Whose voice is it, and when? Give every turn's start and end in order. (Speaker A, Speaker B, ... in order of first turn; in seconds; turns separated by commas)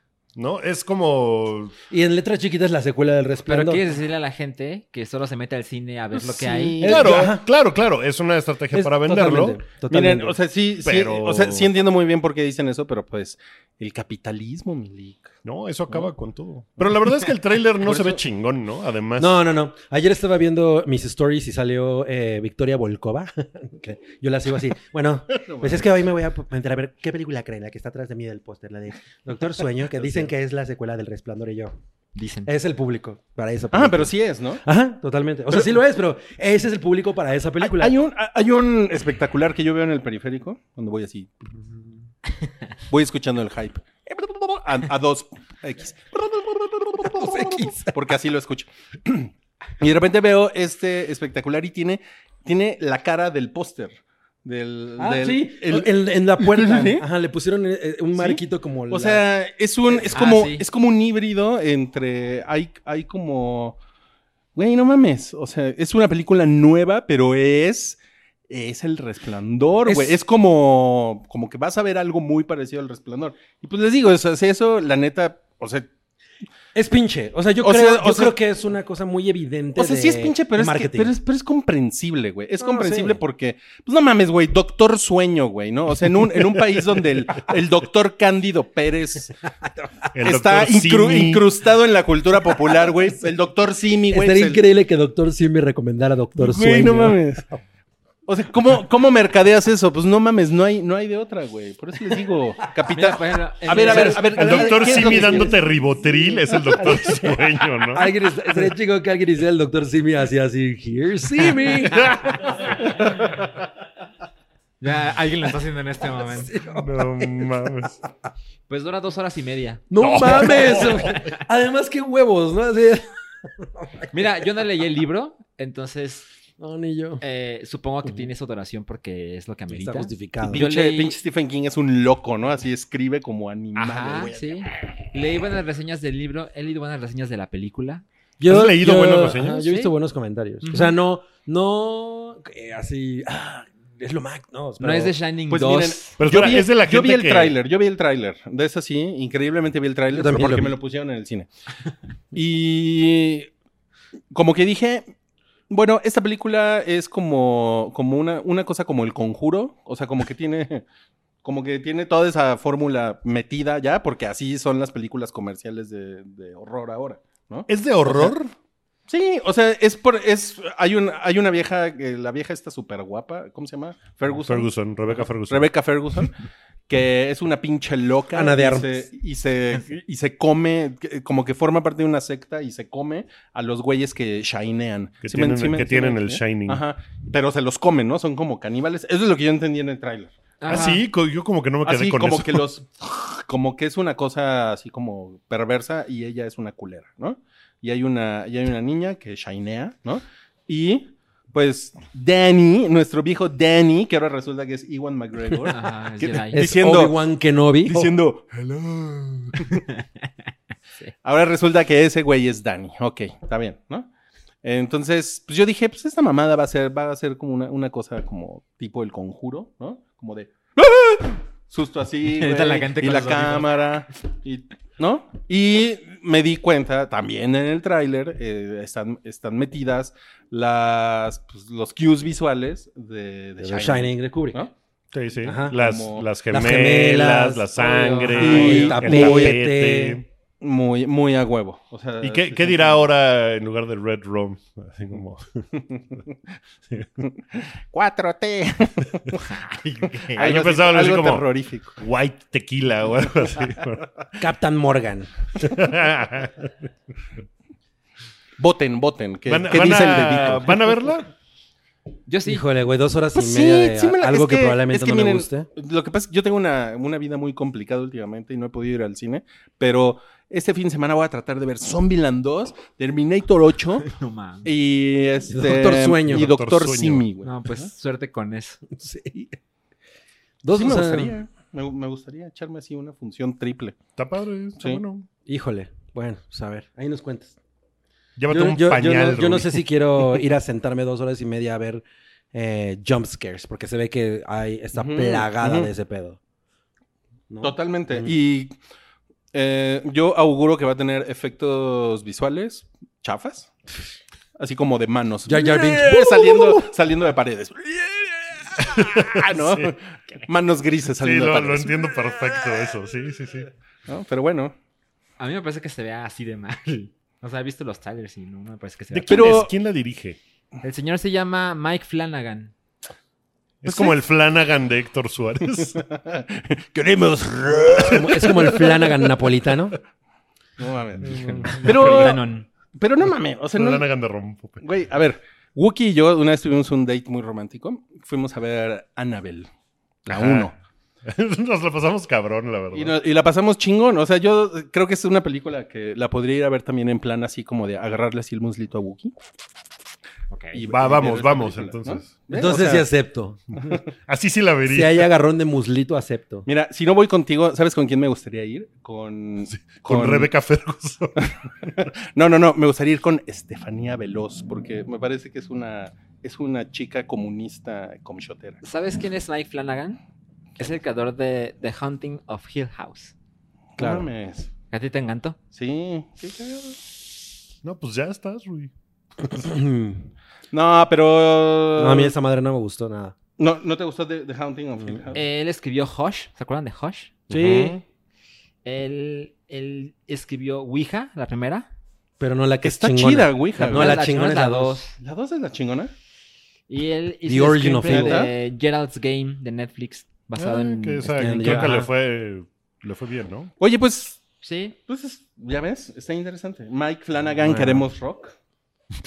Speaker A: 0.3-1.7, Speaker B: 1.9-3.8, Speaker C: 3.5-6.9, Speaker D: 6.1-7.3, Speaker B: 6.8-7.5, Speaker A: 6.8-9.6, Speaker B: 8.7-10.4, Speaker D: 9.9-15.3, Speaker A: 10.8-11.7, Speaker A: 15.4-19.3, Speaker D: 17.8-18.2, Speaker B: 19.2-31.7, Speaker D: 25.4-25.8, Speaker C: 32.1-32.5, Speaker B: 32.4-37.9, Speaker D: 33.7-34.6, Speaker D: 37.6-41.7, Speaker D: 42.9-57.0, Speaker B: 47.0-47.9, Speaker B: 55.0-59.2, Speaker D: 58.1-63.8, Speaker C: 60.1-60.6, Speaker D: 64.5-75.9, Speaker B: 69.8-70.2, Speaker B: 76.7-81.1, Speaker D: 77.6-78.3, Speaker D: 79.8-89.3, Speaker B: 82.6-83.2, Speaker A: 90.1-91.5, Speaker D: 90.2-94.6, Speaker B: 94.1-97.2, Speaker D: 96.4-97.5, Speaker D: 98.2-105.5, Speaker C: 102.9-104.3, Speaker B: 103.7-113.2, Speaker A: 103.8-108.2, Speaker A: 111.6-113.0, Speaker C: 114.8-116.5, Speaker B: 116.2-117.5, Speaker A: 116.7-118.0, Speaker C: 118.7-121.2, Speaker B: 119.9-124.0, Speaker A: 120.0-121.2, Speaker C: 124.1-126.2, Speaker B: 126.6-127.2, Speaker C: 127.2-131.2, Speaker B: 129.7-130.6, Speaker D: 130.4-134.7, Speaker C: 133.7-138.0, Speaker B: 138.4-145.1, Speaker A: 138.4-139.7, Speaker C: 139.7-139.9, Speaker C: 140.6-140.9, Speaker C: 144.8-146.1, Speaker D: 145.5-151.5, Speaker A: 146.2-147.6, Speaker B: 150.1-150.8, Speaker D: 152.3-153.5, Speaker D: 154.3-155.1, Speaker D: 155.7-160.8, Speaker D: 161.4-168.3, Speaker A: 167.7-168.5, Speaker D: 169.1-174.7, Speaker A: 174.4-175.7, Speaker D: 175.5-176.3, Speaker D: 176.9-190.3, Speaker B: 178.3-179.1, Speaker A: 185.2-186.8, Speaker C: 190.6-191.0, Speaker A: 190.7-192.6, Speaker D: 191.8-207.1, Speaker C: 205.6-206.6, Speaker B: 206.5-208.2, Speaker D: 207.8-209.9, Speaker D: 211.2-214.1, Speaker D: 214.6-234.7, Speaker C: 222.3-223.8, Speaker B: 233.6-234.6, Speaker A: 235.1-240.2, Speaker B: 235.4-235.8, Speaker D: 235.7-236.3, Speaker B: 236.5-237.7, Speaker C: 237.8-239.0, Speaker B: 238.3-240.2, Speaker D: 238.4-239.5, Speaker D: 240.6-243.0, Speaker A: 242.2-245.6, Speaker D: 245.8-246.2, Speaker D: 247.2-249.6, Speaker A: 250.0-254.3, Speaker D: 250.2-252.0, Speaker B: 254.4-255.4, Speaker A: 255.6-256.7, Speaker D: 258.6-261.1, Speaker A: 259.5-261.3, Speaker C: 262.3-262.6, Speaker B: 262.4-265.7, Speaker D: 263.3-274.1, Speaker C: 274.1-274.7, Speaker D: 274.6-277.5, Speaker B: 275.5-276.5, Speaker A: 276.3-277.2, Speaker C: 277.4-278.8, Speaker B: 278.9-279.5, Speaker B: 280.6-281.4, Speaker D: 280.7-284.0, Speaker A: 284.2-285.3, Speaker B: 285.4-287.6, Speaker A: 288.4-289.8, Speaker B: 288.5-296.4, Speaker D: 294.9-295.9, Speaker B: 297.5-298.3, Speaker D: 297.6-298.7, Speaker D: 299.5-303.7, Speaker D: 304.6-312.6, Speaker B: 305.5-306.9, Speaker A: 308.8-309.9, Speaker A: 311.2-313.7, Speaker D: 314.1-314.7, Speaker C: 315.4-319.7, Speaker A: 319.1-320.4, Speaker D: 319.3-319.7, Speaker C: 320.8-322.7, Speaker A: 323.8-326.0, Speaker D: 323.9-324.1, Speaker D: 325.9-329.1, Speaker B: 328.0-330.0, Speaker D: 330.8-332.4, Speaker A: 331.2-332.4, Speaker C: 331.4-332.7, Speaker D: 332.9-334.0, Speaker A: 333.7-334.8, Speaker D: 334.8-339.7, Speaker D: 340.2-340.7, Speaker A: 340.3-340.7, Speaker A: 341.2-343.1, Speaker D: 342.9-349.3, Speaker C: 350.5-350.8, Speaker D: 350.7-353.1, Speaker A: 350.9-352.3, Speaker B: 352.5-353.6, Speaker A: 354.3-355.2, Speaker B: 354.9-356.6, Speaker D: 356.6-360.5, Speaker A: 359.7-361.5, Speaker D: 361.4-368.8, Speaker C: 368.8-370.2, Speaker C: 370.8-373.3, Speaker D: 373.9-374.7, Speaker B: 374.0-374.3, Speaker C: 374.9-375.6, Speaker D: 375.7-377.0, Speaker A: 377.8-378.9, Speaker B: 379.5-380.3, Speaker D: 380.7-382.3, Speaker B: 381.9-383.3, Speaker D: 383.6-385.4, Speaker C: 385.3-387.4, Speaker B: 387.5-388.0, Speaker D: 387.5-388.0, Speaker C: 388.8-391.9, Speaker B: 392.4-395.0, Speaker D: 392.8-394.2, Speaker C: 393.8-395.2, Speaker D: 395.2-396.1, Speaker C: 396.9-401.8, Speaker B: 397.4-398.5, Speaker D: 398.1-398.5, Speaker A: 400.6-403.7, Speaker B: 401.3-402.1, Speaker D: 403.8-404.4, Speaker C: 404.6-404.9, Speaker D: 405.1-408.5, Speaker B: 407.6-408.1